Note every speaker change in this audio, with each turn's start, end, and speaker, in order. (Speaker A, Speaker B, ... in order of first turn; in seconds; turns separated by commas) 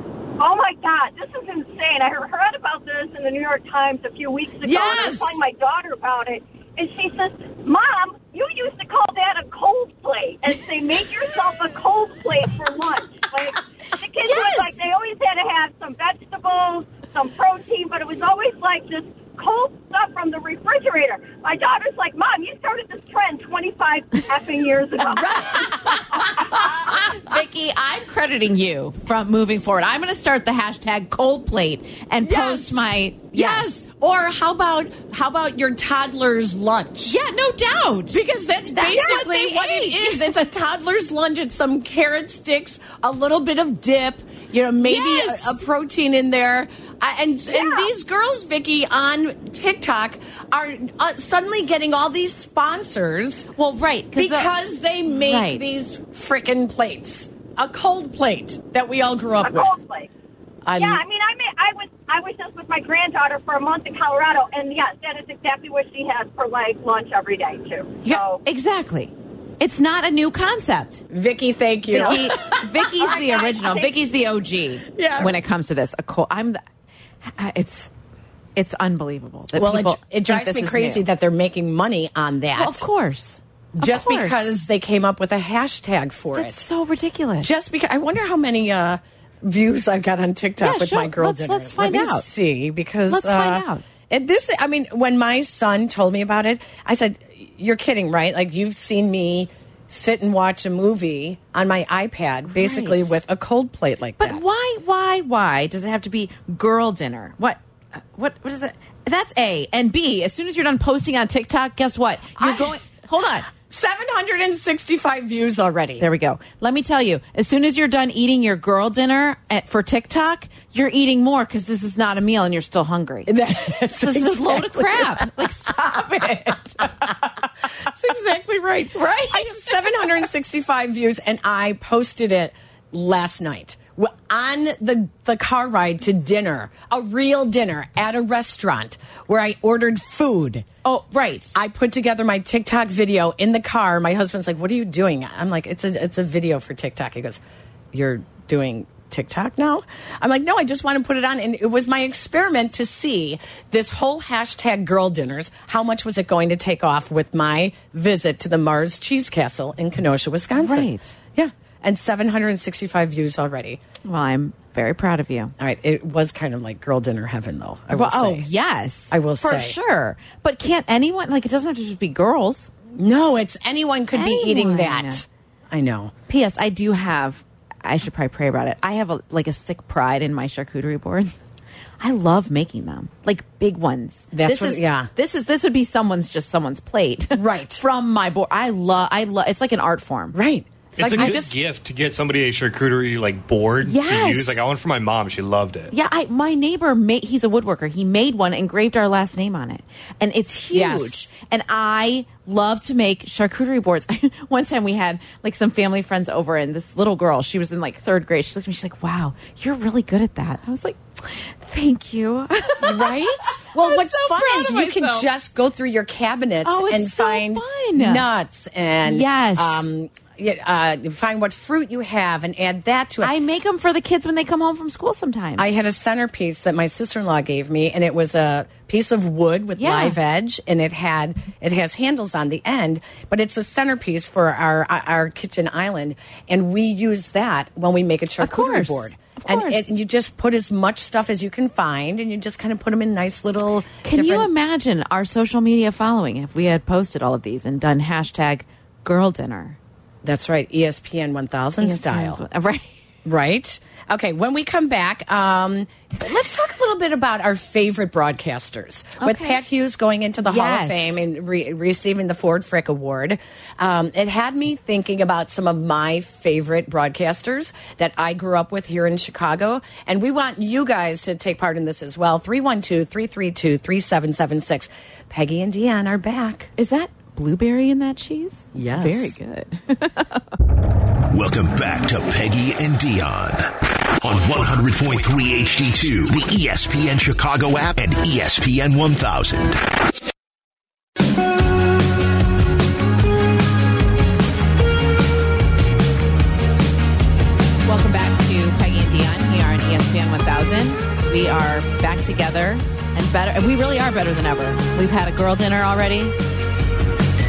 Speaker A: 0.4-26.6, Speaker B: 4.6-5.4, Speaker C: 4.7-5.1, Speaker C: 14.2-14.8, Speaker B: 25.1-26.2, Speaker C: 26.2-33.7, Speaker B: 32.2-37.2, Speaker C: 37.1-38.2, Speaker B: 38.1-53.5, Speaker C: 38.7-40.3, Speaker C: 44.8-45.6, Speaker C: 47.5-47.9, Speaker C: 53.5-54.5, Speaker B: 54.1-59.7, Speaker C: 55.1-55.6, Speaker A: 59.4-60.1, Speaker B: 60.6-61.0, Speaker A: 60.7-68.4, Speaker C: 68.0-71.0, Speaker B: 71.1-72.9, Speaker C: 71.9-76.6, Speaker A: 72.0-74.0, Speaker B: 74.9-75.4, Speaker C: 77.2-77.9, Speaker C: 78.5-81.1, Speaker B: 79.5-82.8, Speaker C: 82.5-84.5, Speaker B: 83.7-86.6, Speaker C: 86.3-87.5, Speaker B: 87.4-104.4, Speaker C: 90.6-92.3, Speaker C: 93.1-93.8, Speaker C: 102.5-103.2, Speaker C: 104.2-113.5, Speaker B: 112.4-112.7, Speaker B: 113.5-116.0, Speaker C: 116.0-127.5, Speaker B: 123.3-125.3, Speaker B: 128.0-128.4, Speaker C: 128.0-130.1, Speaker B: 129.3-140.6, Speaker C: 140.8-141.5, Speaker B: 141.5-147.4, Speaker B: 147.9-163.8, Speaker C: 160.5-161.2, Speaker C: 164.0-165.5, Speaker B: 165.6-168.5, Speaker C: 167.9-172.7, Speaker B: 169.1-169.8, Speaker B: 172.9-176.1, Speaker C: 174.1-175.2, Speaker C: 176.3-181.4, Speaker C: 182.0-190.4, Speaker B: 184.3-185.1, Speaker B: 187.3-187.8, Speaker B: 190.3-191.5, Speaker D: 191.0-195.9, Speaker C: 191.1-191.4, Speaker C: 193.8-194.6, Speaker C: 195.9-215.3, Speaker B: 200.7-201.3, Speaker B: 212.8-223.3, Speaker C: 216.6-218.3, Speaker C: 219.0-219.9, Speaker C: 223.2-225.7, Speaker B: 225.6-244.5, Speaker C: 229.8-230.2, Speaker C: 238.4-240.0, Speaker C: 244.0-249.8, Speaker B: 250.2-252.4, Speaker C: 251.8-252.9, Speaker B: 253.2-276.7, Speaker C: 259.2-259.6, Speaker C: 260.4-261.2, Speaker C: 276.8-280.6, Speaker B: 278.7-279.4, Speaker E: 281.3-289.9, Speaker C: 297.8-306.3